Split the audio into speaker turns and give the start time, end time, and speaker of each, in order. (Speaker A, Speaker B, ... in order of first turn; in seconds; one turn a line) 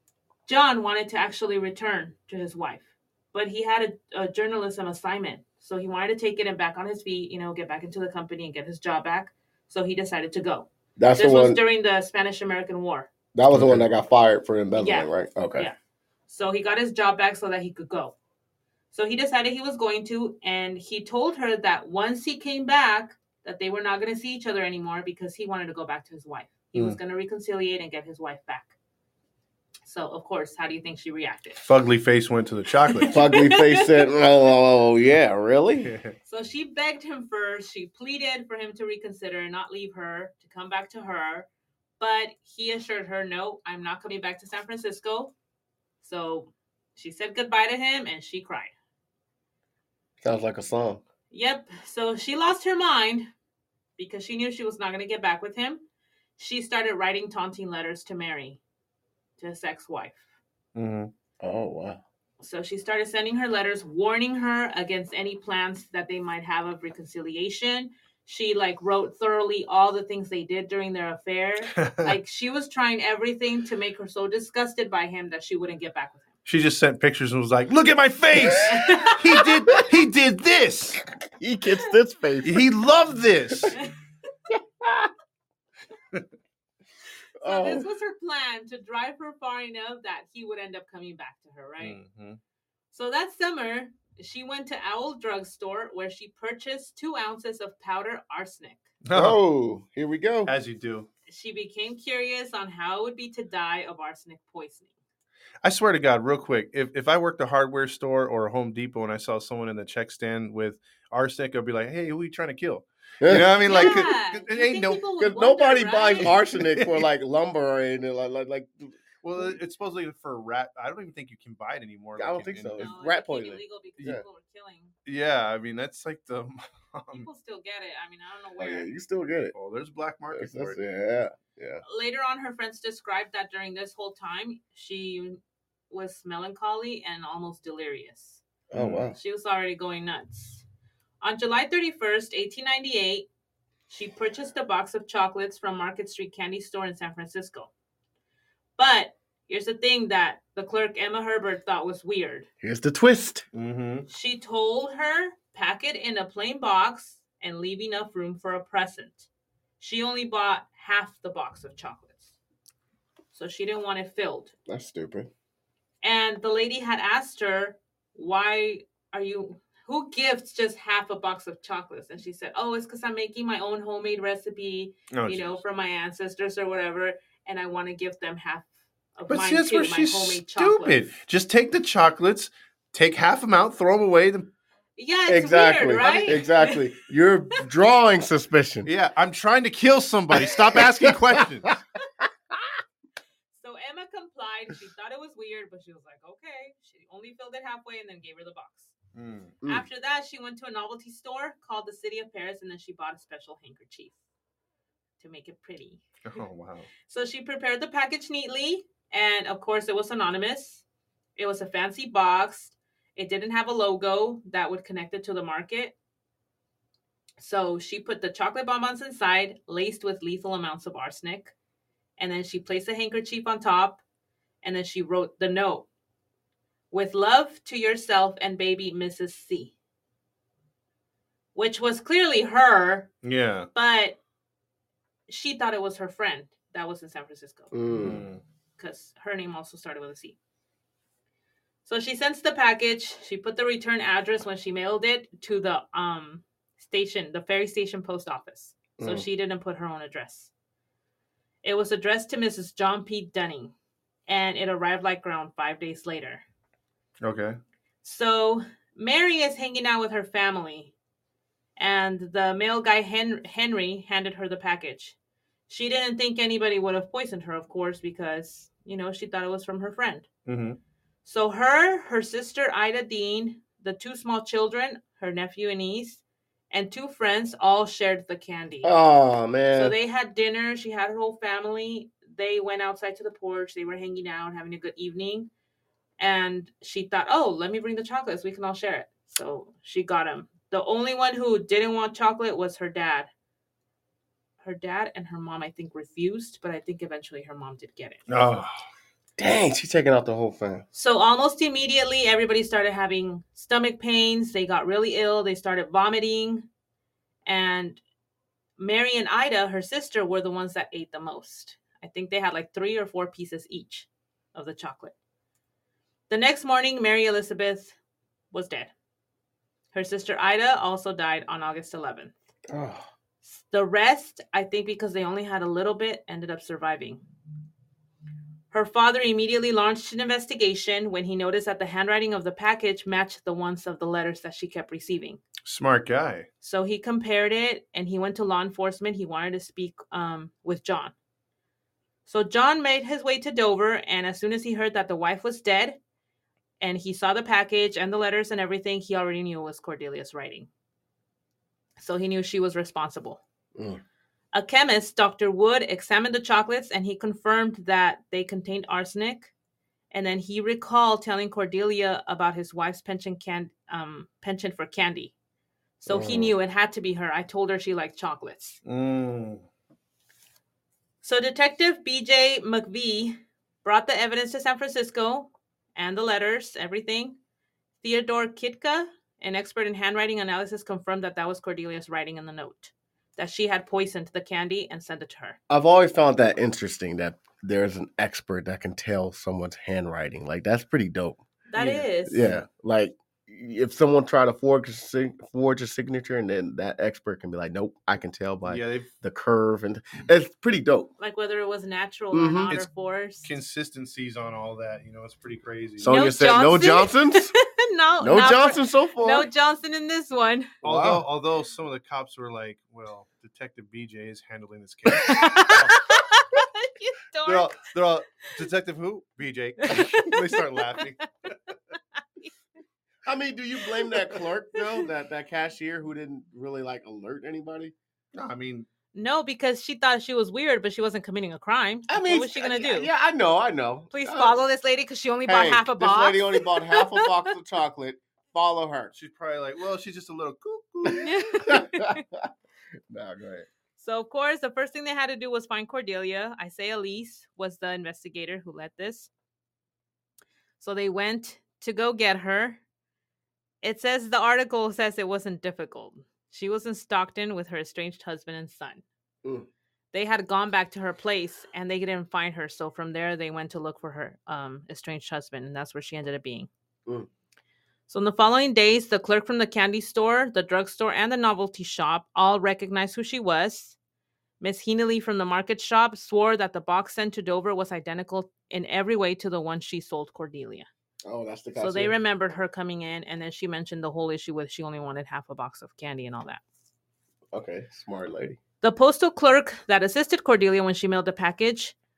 Speaker A: 0.5-13.1
Speaker B: 11.0-11.6
Speaker B: 13.3-15.7
Speaker C: 13.5-13.8
Speaker A: 14.8-15.8
Speaker A: 16.3-18.1
Speaker A: 18.9-28.7
Speaker A: 29.9-31.6
Speaker C: 31.6-33.1
Speaker A: 32.9-34.1
Speaker B: 33.1-35.9
Speaker C: 35.8-36.1
Speaker A: 36.2-41.5
Speaker A: 42.0-45.3
Speaker A: 46.0-48.7
Speaker B: 50.2-51.0
Speaker A: 51.3-53.3
Speaker A: 54.0-55.8
Speaker A: 56.4-58.6
Speaker A: 59.4-60.2
Speaker C: 60.7-61.1
Speaker B: 61.4-62.0
Speaker A: 62.4-76.3
Speaker C: 71.8-72.1
Speaker C: 76.5-81.0
Speaker A: 78.7-79.4
Speaker B: 81.3-82.6
Speaker C: 82.4-83.8
Speaker B: 84.5-85.1
Speaker B: 87.4-87.9
Speaker A: 87.4-92.0
Speaker C: 91.8-92.4
Speaker A: 92.9-98.9
Speaker C: 99.0-99.4
Speaker B: 99.1-100.5
Speaker C: 100.5-101.1
Speaker A: 101.3-104.9
Speaker C: 105.6-115.0
Speaker B: 113.2-113.5
Speaker A: 113.6-116.3
Speaker B: 115.2-119.5
Speaker C: 116.2-117.1
Speaker C: 119.2-122.9
Speaker B: 122.2-124.2
Speaker A: 122.8-124.9
Speaker C: 125.0-127.3
Speaker A: 127.1-128.9
Speaker B: 128.6-129.5
Speaker C: 129.5-130.8
Speaker B: 130.3-131.8
Speaker A: 131.8-135.4
Speaker A: 135.9-138.4
Speaker B: 138.7-139.2
Speaker C: 138.7-139.1
Speaker A: 139.2-140.6
Speaker A: 141.2-143.3
Speaker A: 143.9-147.7
Speaker A: 148.8-152.5
Speaker B: 152.6-153.4
Speaker C: 153.5-154.1
Speaker A: 154.1-159.3
Speaker A: 159.8-162.3
Speaker A: 163.3-164.5
Speaker B: 164.7-165.3
Speaker A: 166.0-181.1
Speaker C: 175.1-175.6
Speaker C: 179.3-184.5
Speaker A: 185.0-186.9
Speaker B: 185.3-188.9
Speaker C: 186.0-186.4
Speaker C: 188.8-191.7
Speaker B: 190.3-192.8
Speaker A: 193.5-198.9
Speaker C: 199.1-199.6
Speaker A: 199.7-204.2
Speaker A: 205.2-206.0
Speaker C: 206.2-206.9
Speaker A: 207.1-210.8
Speaker A: 211.4-215.9
Speaker A: 217.4-221.5
Speaker A: 222.2-224.0
Speaker A: 224.6-225.9
Speaker A: 226.9-229.7
Speaker A: 231.5-233.1
Speaker C: 233.2-233.7
Speaker A: 233.7-234.2
Speaker A: 235.3-237.7
Speaker B: 237.7-238.2
Speaker C: 237.9-238.4
Speaker A: 238.8-240.3
Speaker A: 241.8-250.5
Speaker B: 249.0-249.2
Speaker A: 251.6-253.7
Speaker A: 254.3-256.4
Speaker C: 257.2-257.6
Speaker A: 258.0-260.9
Speaker A: 261.8-265.1
Speaker A: 265.7-270.2
Speaker C: 270.5-270.8
Speaker A: 271.2-278.9
Speaker B: 278.8-279.9
Speaker A: 279.7-285.5
Speaker A: 286.2-293.3
Speaker A: 294.6-298.2
Speaker C: 298.3-298.8
Speaker B: 299.4-300.8
Speaker A: 300.9-306.7
Speaker A: 307.4-308.0
Speaker A: 308.8-315.1
Speaker A: 316.3-317.9
Speaker A: 318.5-318.9
Speaker A: 319.9-322.3
Speaker B: 322.7-323.1
Speaker A: 323.4-327.2
Speaker A: 328.7-335.4
Speaker C: 335.6-336.5
Speaker A: 336.6-341.1
Speaker A: 342.3-346.0
Speaker A: 346.8-350.7
Speaker A: 352.0-353.4
Speaker B: 353.8-354.0
Speaker A: 354.5-359.5
Speaker A: 360.1-365.3
Speaker A: 366.0-368.8
Speaker B: 366.1-366.5
Speaker C: 368.8-369.6
Speaker A: 371.2-377.4
Speaker A: 378.0-385.6
Speaker B: 385.7-391.4
Speaker A: 391.7-392.5
Speaker C: 391.8-392.0
Speaker B: 392.2-401.1
Speaker C: 398.6-399.1
Speaker A: 401.2-403.5
Speaker B: 402.3-402.7
Speaker C: 403.4-406.2
Speaker B: 406.0-407.5
Speaker A: 406.1-410.7
Speaker B: 408.2-409.5
Speaker B: 410.8-411.2
Speaker C: 410.8-416.0
Speaker A: 415.2-417.9
Speaker C: 417.4-421.6
Speaker A: 419.8-420.6
Speaker B: 423.2-427.9
Speaker A: 424.8-425.1
Speaker C: 428.3-428.9
Speaker A: 429.1-433.1
Speaker B: 432.1-434.6
Speaker A: 434.1-437.5
Speaker B: 435.4-439.1
Speaker C: 439.1-441.4
Speaker B: 441.1-442.5
Speaker A: 441.2-442.2
Speaker B: 443.1-443.7
Speaker A: 444.0-449.3
Speaker A: 450.8-452.8
Speaker A: 453.8-459.0
Speaker A: 460.1-466.7
Speaker A: 468.1-473.9
Speaker A: 474.6-480.9
Speaker B: 481.2-482.1
Speaker A: 481.8-486.6
Speaker B: 487.5-488.6
Speaker A: 488.8-491.9